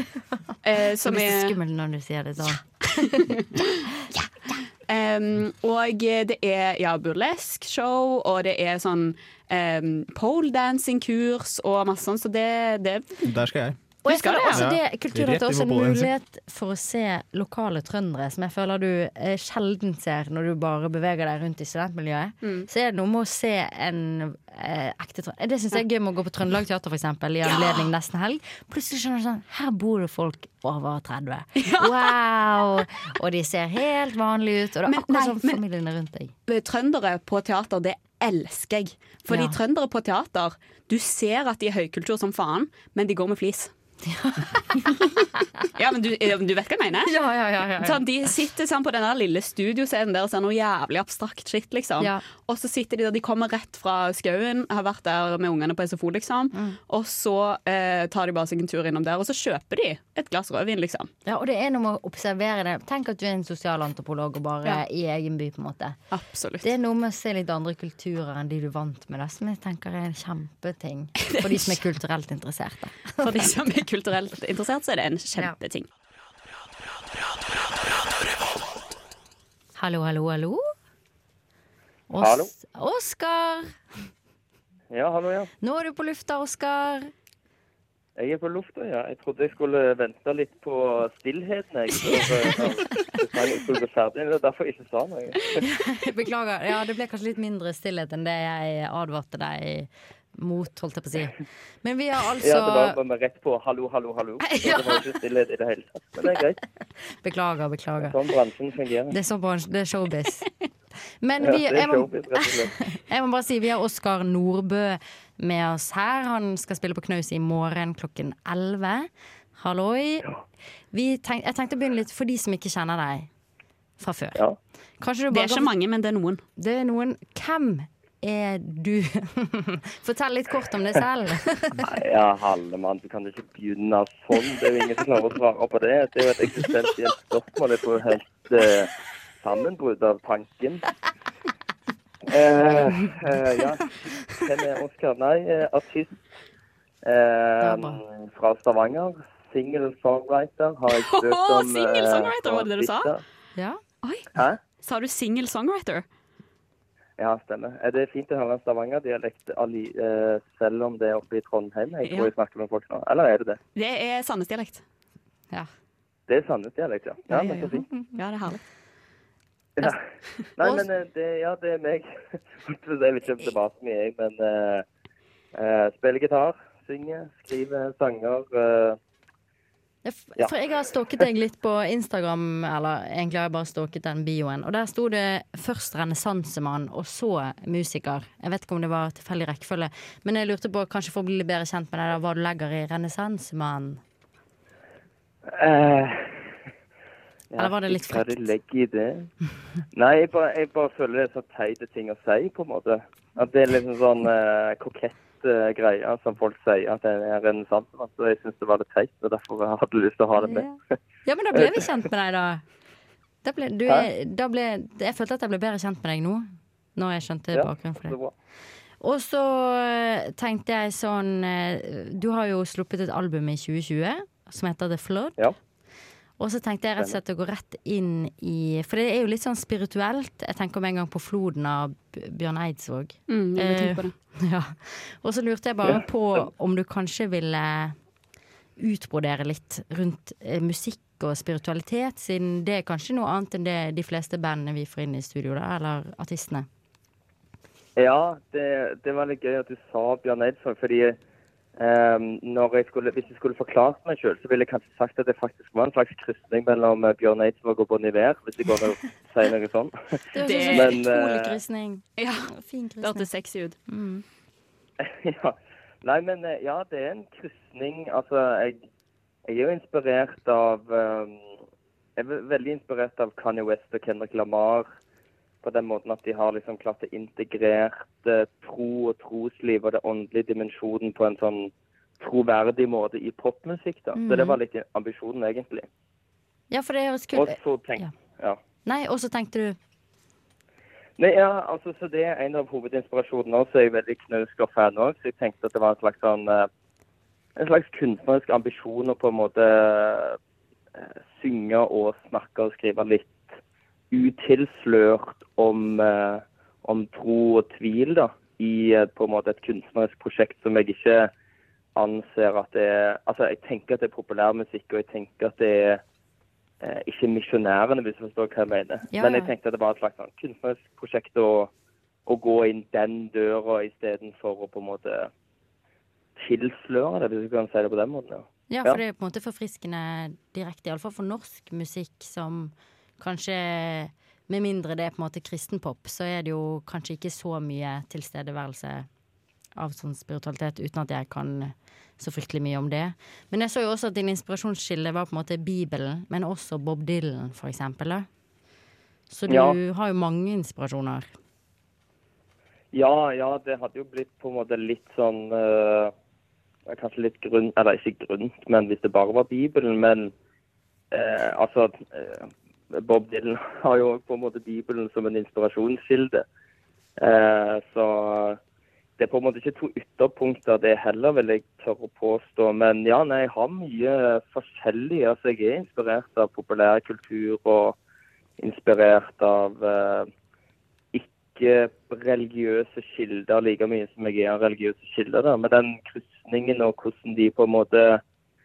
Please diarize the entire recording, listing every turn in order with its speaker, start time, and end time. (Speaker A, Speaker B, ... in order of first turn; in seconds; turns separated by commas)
Speaker A: 0.6-1.5, Speaker B: 1.1-3.4, Speaker A: 3.3-3.6, Speaker A: 4.9-13.2, Speaker C: 13.2-13.8, Speaker B: 14.0-36.3, Speaker A: 14.1-14.7, Speaker C: 14.5-16.1, Speaker A: 22.4-22.7, Speaker A: 27.4-27.9, Speaker A: 31.6-32.1, Speaker A: 34.9-35.6, Speaker A: 36.5-43.7, Speaker B: 39.3-39.6, Speaker B: 44.1-45.1, Speaker A: 45.8-47.1, Speaker B: 47.1-48.3, Speaker A: 47.8-61.1, Speaker B: 56.5-56.8, Speaker B: 61.2-66.0, Speaker A: 66.1-66.7, Speaker B: 66.6-73.5, Speaker A: 71.3-71.8, Speaker A: 73.2-75.9, Speaker B: 79.8-80.6, Speaker B: 82.1-83.8, Speaker D: 82.2-82.5, Speaker D: 84.9-85.5, Speaker B: 85.6-87.1, Speaker D: 88.2-95.6, Speaker B: 92.1-93.1, Speaker B: 95.6-103.0, Speaker D: 102.4-106.6, Speaker B: 104.4-105.1, Speaker B: 107.2-108.1, Speaker D: 108.0-109.1, Speaker B: 109.1-110.5, Speaker B: 111.2-120.3, Speaker D: 111.4-112.8, Speaker B: 120.9-123.3, Speaker B: 124.0-124.4, Speaker B: 125.0-125.7, Speaker A: 125.3-126.4, Speaker B: 126.6-131.8, Speaker D: 131.8-138.9, Speaker D: 139.4-140.8, Speaker D: 142.2-146.1, Speaker D: 147.0-153.2, Speaker B: 147.6-148.0, Speaker A: 150.9-153.1, Speaker B: 153.6-153.8, Speaker A: 154.8-156.1, Speaker D: 157.2-163.6, Speaker A: 162.1-162.3, Speaker A: 163.8-164.8, Speaker D: 166.3-167.8, Speaker A: 167.3-168.6, Speaker B: 167.3-168.1, Speaker D: 170.6-172.1, Speaker B: 170.6-170.9, Speaker D: 172.7-174.8, Speaker D: 175.6-179.0, Speaker B: 180.1-194.0, Speaker D: 195.5-196.4, Speaker D: 197.5-199.3, Speaker B: 197.6-198.5, Speaker D: 199.9-210.7, Speaker B: 210.4-212.6, Speaker D: 211.5-211.9, Speaker B: 213.4-218.2, Speaker D: 217.5-218.3, Speaker B: 219.0-225.4, Speaker B: 226.4-238.0, Speaker A: 233.3-234.1, Speaker D: 235.8-236.4, Speaker B: 238.8-246.7, Speaker D: 248.0-251.2, Speaker D: 251.8-259.9, Speaker B: 260.3-263.3, Speaker A: 260.4-260.9, Speaker D: 260.6-261.6, Speaker A: 262.2-263.8, Speaker B: 263.9-264.2, Speaker D: 265.0-268.8, Speaker D: 269.5-271.4, Speaker D: 272.2-274.9, Speaker D: 275.6-285.9, Speaker B: 284.1-284.6, Speaker B: 286.7-288.1, Speaker D: 287.4-288.6, Speaker B: 288.9-289.8, Speaker D: 291.2-296.7, Speaker D: 297.6-300.4, Speaker D: 301.0-303.4, Speaker D: 304.1-311.3, Speaker D: 312.0-316.0, Speaker D: 316.8-321.7, Speaker B: 319.1-319.5, Speaker D: 322.3-325.3, Speaker D: 326.4-329.0, Speaker B: 328.7-339.1, Speaker B: 339.8-348.3, Speaker B: 349.3-351.3, Speaker D: 349.5-349.8, Speaker D: 352.9-356.1, Speaker D: 356.9-360.3, Speaker D: 361.1-366.4, Speaker D: 367.2-368.6, Speaker D: 369.2-377.9, Speaker D: 378.6-380.3, Speaker D: 381.1-388.2